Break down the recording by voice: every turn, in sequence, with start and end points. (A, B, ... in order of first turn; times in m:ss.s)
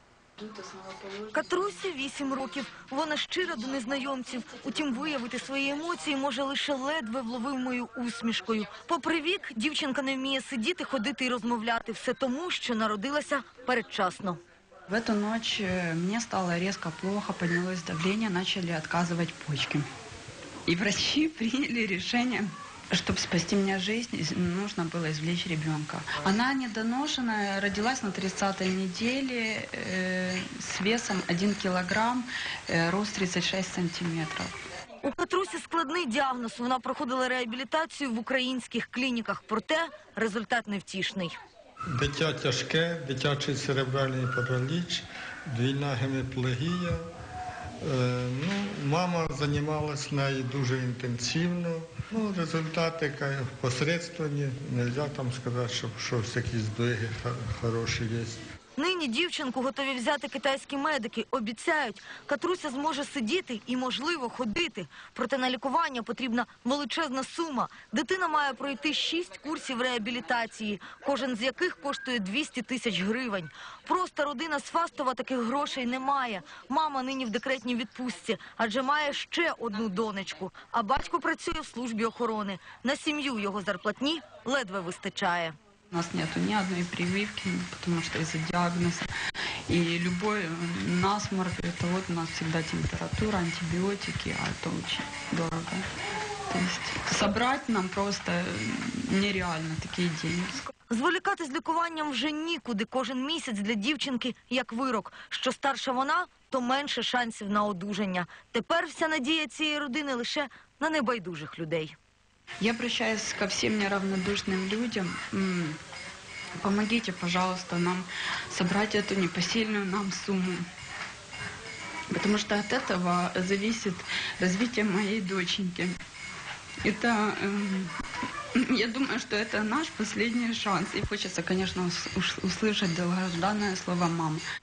0:00.4-0:01.3 A
0:01.3-0:14.4 B
0:14.9-0:19.9 A
0:20.7-0:34.6 A
0:35.0-0:41.4 B
0:41.9-0:47.0 C
0:47.8-0:58.4 C
0:58.8-1:25.6 B
1:25.9-1:29.1 A
1:29.7-1:35.9 A
1:36.5-1:40.7 A
1:40.9-1:52.0 B
1:52.6-1:55.8 A
1:56.6-2:00.7 A
2:02.1-2:06.0 A
2:06.8-2:07.9 A
2:08.6-2:14.4 A